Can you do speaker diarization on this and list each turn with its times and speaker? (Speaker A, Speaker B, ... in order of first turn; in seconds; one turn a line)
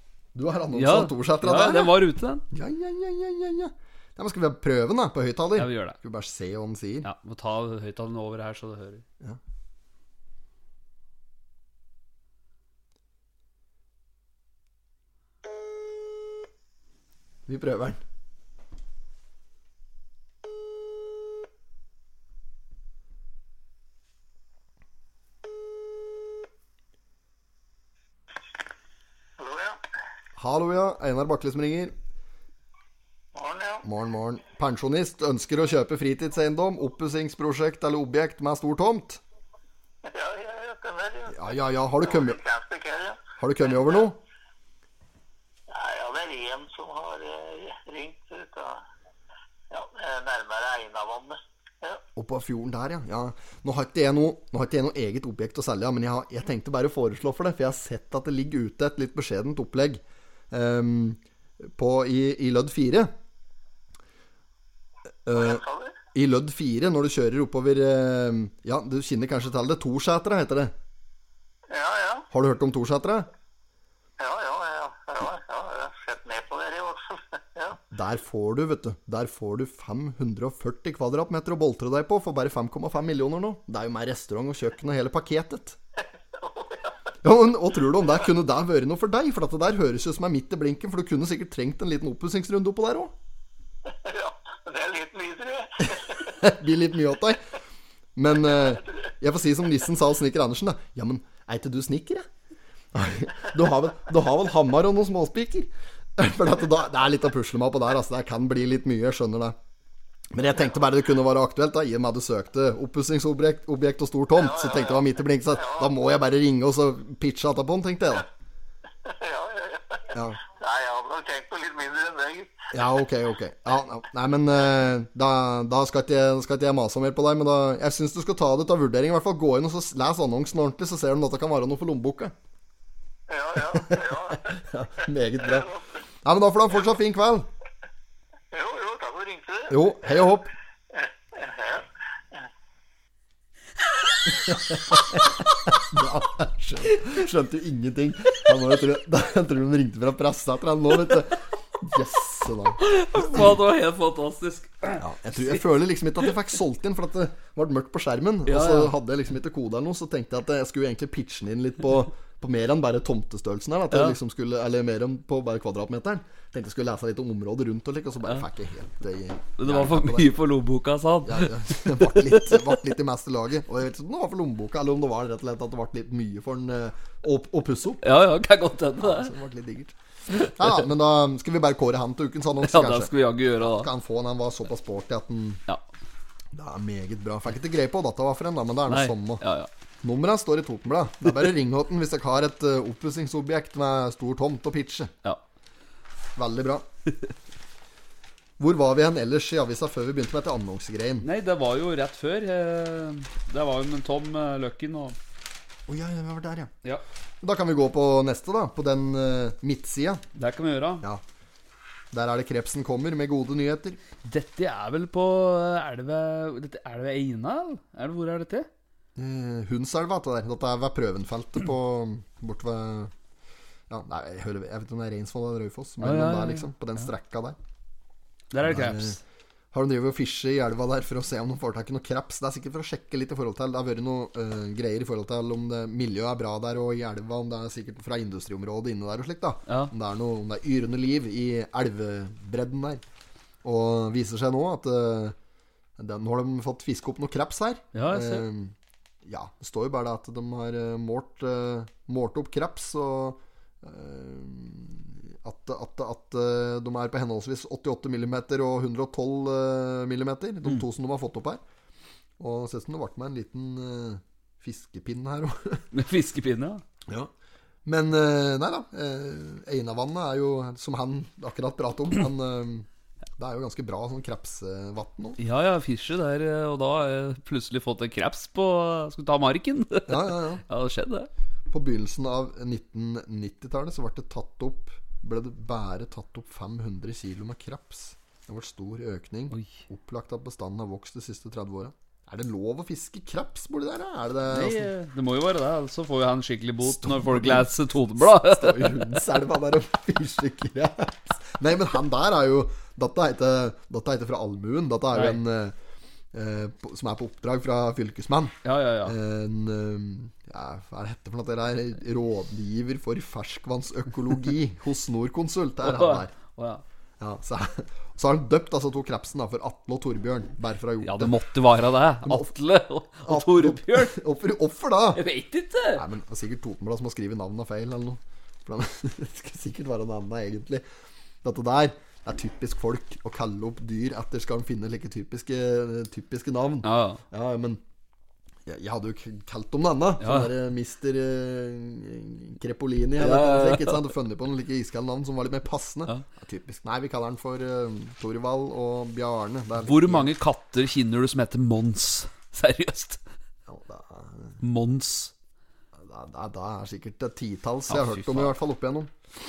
Speaker A: 0.3-7.1
Speaker B: 0.7-2.4
Speaker B: 5.6-6.0
Speaker B: 7.0-9.1
Speaker A: 17.5-18.0
Speaker C: 29.4-29.8
Speaker A: 30.4-31.9
Speaker C: 33.3-33.9
Speaker A: 33.8-39.2
Speaker C: 40.0-44.1
Speaker A: 41.3-42.4
Speaker A: 43.4-44.2
Speaker C: 45.7-48.8
Speaker C: 49.7-52.0
Speaker A: 52.2-63.1
Speaker A: 65.3-65.6
Speaker C: 65.3-66.0
Speaker A: 66.1-70.7
Speaker C: 71.7-72.3
Speaker A: 72.3-73.3
Speaker C: 74.2-77.8
Speaker A: 77.9-85.8
Speaker C: 86.3-87.0
Speaker A: 87.2-93.1
Speaker C: 93.9-96.3
Speaker A: 95.9-97.4
Speaker A: 98.2-102.3
Speaker A: 102.9-109.6
Speaker A: 110.3-118.3
Speaker C: 114.3-115.9
Speaker C: 119.0-122.6
Speaker A: 120.1-120.4
Speaker A: 122.7-132.3
Speaker C: 133.3-134.6
Speaker A: 133.7-135.7
Speaker C: 135.4-136.0
Speaker A: 136.2-137.5
Speaker C: 138.5-140.2
Speaker A: 139.7-140.5
Speaker C: 140.9-142.5
Speaker A: 144.3-152.8
Speaker B: 152.8-155.6
Speaker A: 155.0-170.3
Speaker B: 158.4-158.9
Speaker B: 163.9-164.2
Speaker B: 169.6-172.7
Speaker A: 171.2-178.0
Speaker B: 178.0-179.3
Speaker A: 179.0-185.6
Speaker B: 182.6-183.9
Speaker A: 186.5-189.4
Speaker B: 188.9-189.7
Speaker A: 190.0-195.1
Speaker A: 196.4-196.9
Speaker A: 198.6-201.3
Speaker B: 201.2-205.2
Speaker A: 205.9-206.7
Speaker A: 207.4-210.2
Speaker B: 210.3-211.1
Speaker A: 212.1-214.0
Speaker B: 214.2-218.7
Speaker A: 219.2-223.1
Speaker A: 223.9-227.6
Speaker B: 226.0-226.7
Speaker B: 228.5-229.2
Speaker A: 228.6-229.2
Speaker A: 229.7-243.0
Speaker B: 239.7-239.9
Speaker A: 243.6-245.4
Speaker A: 246.0-248.7
Speaker B: 247.9-248.4
Speaker A: 249.2-261.6
Speaker A: 262.4-265.9
Speaker B: 265.9-266.8
Speaker A: 267.9-272.9
Speaker A: 273.4-275.4
Speaker B: 275.4-281.3
Speaker A: 280.1-280.6
Speaker A: 281.7-294.9
Speaker B: 294.5-299.2
Speaker A: 296.8-305.8
Speaker B: 305.1-305.4
Speaker A: 306.3-316.3
Speaker B: 308.6-309.2
Speaker B: 315.8-316.8
Speaker A: 317.2-321.4
Speaker B: 321.0-324.2
Speaker A: 322.2-322.5
Speaker A: 323.2-325.2
Speaker B: 325.1-326.0
Speaker A: 325.9-330.9
Speaker A: 331.4-337.8
Speaker B: 336.8-337.2
Speaker A: 338.7-350.3
Speaker B: 340.2-340.5
Speaker B: 343.2-344.1
Speaker B: 349.8-353.2
Speaker A: 353.7-354.6
Speaker B: 354.6-355.3
Speaker A: 355.9-359.1
Speaker B: 357.9-358.6